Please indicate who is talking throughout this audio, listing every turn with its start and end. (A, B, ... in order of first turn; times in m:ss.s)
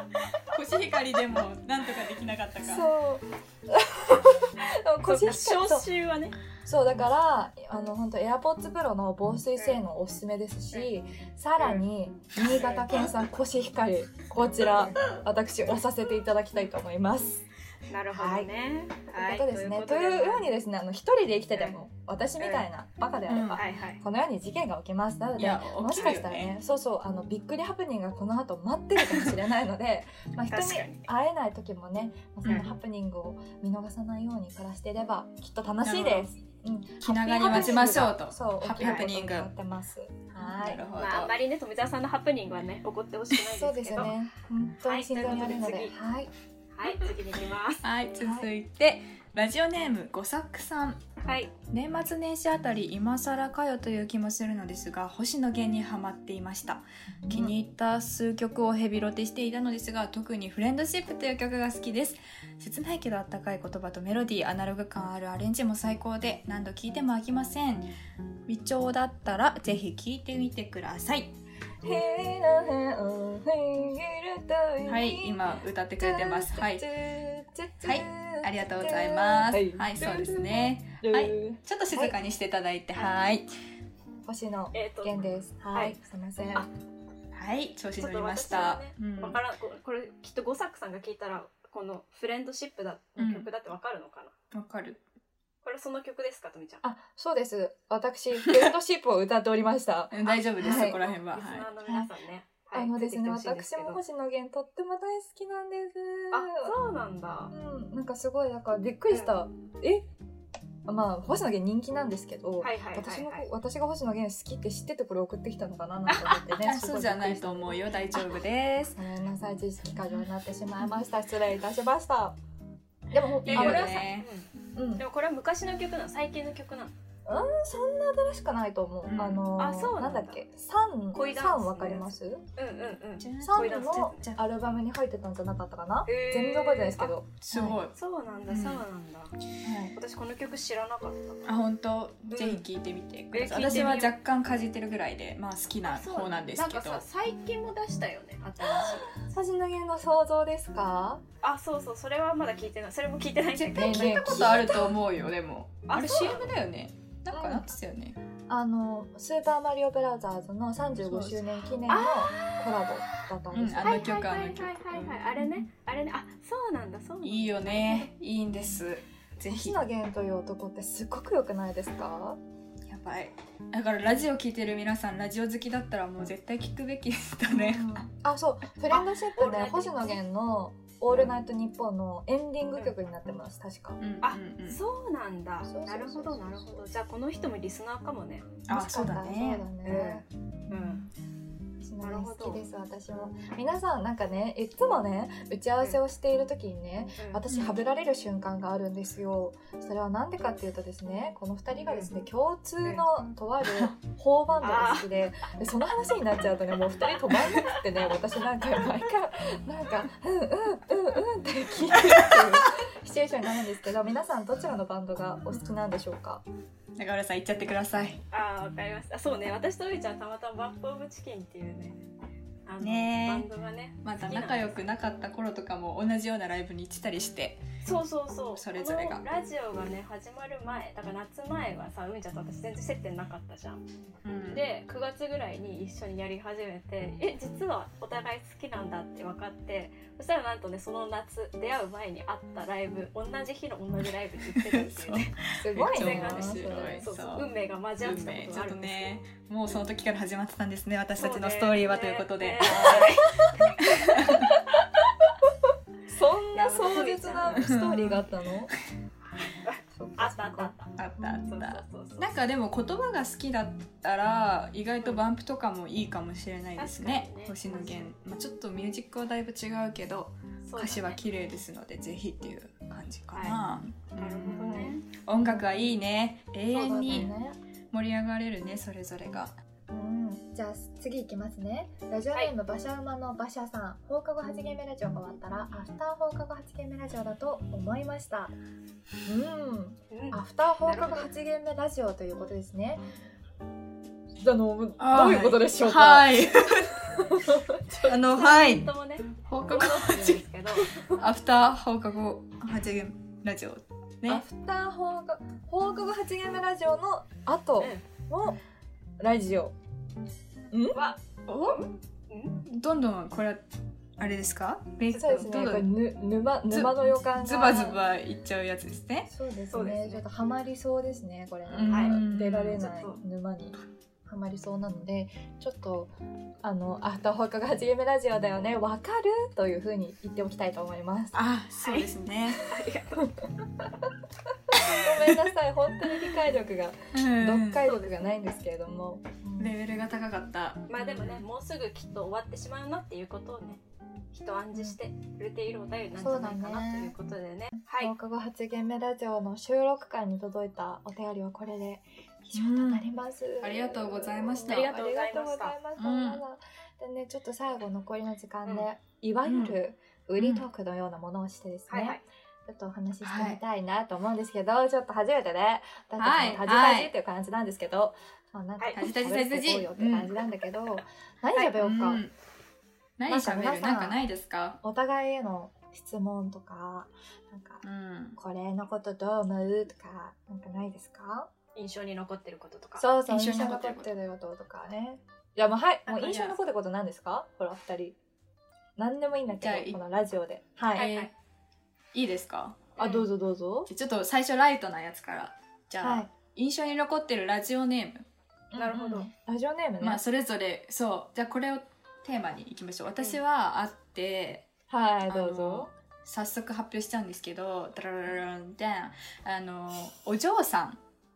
0:00.4-0:02.9 A
0:02.6-0:05.9 B
0:05.0-0:06.4 C
0:06.6-0:17.4 B
0:11.6-0:11.8 C
0:12.4-0:13.1 C
0:14.7-0:15.0 C
0:17.9-0:20.4 C
0:18.1-0:18.5 B
0:19.1-0:40.8 B
0:22.4-0:22.6 C
0:23.3-0:23.6 A
0:23.5-0:24.0 C
0:25.4-0:26.5 A
0:26.0-0:26.2 C
0:30.5-0:31.0 C
0:35.8-0:36.3 A
0:37.0-0:39.5 A
0:37.4-0:38.1 C
0:38.8-0:39.0 C
0:40.4-0:41.3 A
0:40.9-0:44.1 C
0:43.5-0:46.3 B
0:44.8-0:45.9 C
0:46.7-0:47.8 C
0:47.8-0:51.0 A
0:48.2-0:48.5 B
0:51.2-0:51.5 C
0:51.7-1:07.9 A
0:57.2-0:57.5 B
1:08.5-1:11.3 A
1:11.8-1:15.4 B
1:14.8-1:16.9 A
1:16.0-1:22.2 B
1:17.8-1:23.5 A
1:24.2-1:26.7 B
1:24.7-1:25.2 C
1:27.3-1:29.4 A
1:28.0-1:34.3 C
1:33.2-1:33.5 A
1:34.5-1:35.0 A
1:35.6-1:36.8 C
1:36.8-1:41.0 B
1:40.1-1:41.7 A
1:40.2-1:44.0 C
1:42.7-1:46.7 B
1:46.3-1:47.5 C
1:47.5-1:50.0 B
1:50.8-1:57.8 B
1:52.6-1:53.4 C
1:56.1-1:56.5 C
1:56.6-1:59.0 A
1:58.9-2:02.4 B
2:03.1-2:04.0 B
2:03.4-2:04.3 A
2:03.5-2:06.9 C
2:04.7-2:05.0 B
2:07.2-2:12.4 B
2:09.0-2:09.5 A
2:09.6-2:10.4 C
2:11.1-2:14.3 C
2:13.2-2:14.4 A
2:13.4-2:17.8 B
2:16.0-2:17.2 C
2:17.4-2:18.0 A
2:17.9-2:19.4 C
2:18.5-2:18.8 A
2:19.6-2:19.9 A
2:19.6-2:19.9 B
2:19.9-2:21.4 C
2:21.4-2:27.0 A
2:22.3-2:22.6 C
2:23.3-2:24.1 C
2:25.9-2:29.2 C
2:28.6-2:31.2 B
2:31.4-2:34.8 C
2:33.6-2:38.2 A
2:33.7-2:35.0 B
2:35.9-2:36.5 C
2:37.3-2:37.7 B
2:38.5-2:44.1 B
2:41.0-2:41.7 A
2:41.9-2:42.6 C
2:43.5-2:45.2 A
2:43.8-2:48.1 C
2:47.2-2:49.8 A
2:49.5-2:52.4 B
2:52.9-2:58.1 A
2:57.5-3:04.0 B
2:58.9-3:00.2 C
3:04.0-3:04.8 A
3:04.2-3:08.6 C
3:05.6-3:06.9 B
3:08.7-3:09.6 A
3:08.7-3:10.2 B
3:09.8-3:11.1 C
3:11.8-3:36.4 B
3:12.0-3:12.6 C
3:17.5-3:17.8 A
3:24.6-3:25.1 C
3:32.0-3:32.4 A
3:37.0-3:38.2 A
3:38.3-3:42.0 C
3:42.6-3:44.8 C
3:42.8-3:43.5 A
3:44.0-3:47.6 A
3:47.8-3:53.8 C
3:48.5-3:49.2 A
3:54.2-3:54.6 A
3:54.5-4:09.1 C
4:04.5-4:13.2 A
4:05.6-4:07.1 B
4:11.2-4:14.4 C
4:12.6-4:13.2 B
4:13.8-4:14.5 A
4:16.1-4:18.7 B
4:16.5-4:17.7 C
4:17.5-4:18.3 A
4:19.3-4:22.4 C
4:19.9-4:21.5 B
4:21.0-4:37.3 A
4:26.8-4:28.1 C
4:30.6-4:31.2 C
4:33.3-4:33.6 C
4:34.2-4:35.1 C
4:34.5-4:35.7 B
4:36.7-4:37.6 B
4:37.9-4:39.5 A
4:39.9-4:48.5 B
4:49.2-4:53.0 B
4:50.1-4:51.3 C
4:54.4-4:58.2 B
4:55.0-4:57.3 A
4:58.0-4:58.9 A
4:58.1-5:01.0 C
4:59.4-5:04.4 A
5:04.3-5:08.6 B
5:09.2-5:09.7 B
5:10.7-5:11.0 B
5:10.9-5:12.6 C
5:11.5-5:11.8 A
5:12.6-5:13.6 A
5:14.2-5:15.9 A
5:15.1-5:15.5 C
5:15.1-5:18.0 B
5:16.7-5:19.3 A
5:19.3-5:31.4 B
5:19.7-5:20.2 C
5:21.7-5:22.9 A
5:21.7-5:22.2 C
5:22.8-5:23.2 C
5:31.3-5:32.6 A
5:31.8-5:32.1 C
5:32.6-5:33.3 C
5:34.7-5:39.7 B
5:34.7-5:35.0 C
5:37.1-5:37.8 A
5:37.8-5:38.4 C
5:39.6-5:41.4 A
5:40.9-5:43.8 C
5:44.3-5:48.1 C
5:46.2-5:47.1 B
5:47.9-6:12.2 B
5:52.5-5:53.0 A
5:53.6-5:54.9 A
5:54.6-5:55.8 C
5:56.0-5:56.4 A
5:59.4-5:59.8 A
6:00.4-6:00.7 A
6:01.9-6:02.2 C
6:03.2-6:03.6 A
6:06.2-6:07.1 A
6:08.9-6:10.3 A
6:11.8-6:12.3 A
6:13.2-6:14.8 A
6:13.3-6:14.2 B
6:14.8-6:17.8 B
6:17.8-6:18.4 A
6:18.4-6:21.5 B
6:21.7-6:23.0 C
6:23.0-6:28.2 B
6:23.3-6:24.1 A
6:26.2-6:26.6 A
6:29.0-6:31.1 B
6:29.5-6:30.0 A
6:30.9-6:31.3 C
6:31.0-6:31.3 A
6:32.1-6:32.9 A
6:33.0-6:33.3 C
6:33.0-6:33.9 B
6:33.9-6:38.2 A
6:36.0-6:36.3 B
6:38.7-6:40.2 B
6:38.8-6:39.3 C
6:40.0-6:44.7 A
6:44.9-6:45.9 B
6:45.3-6:51.0 A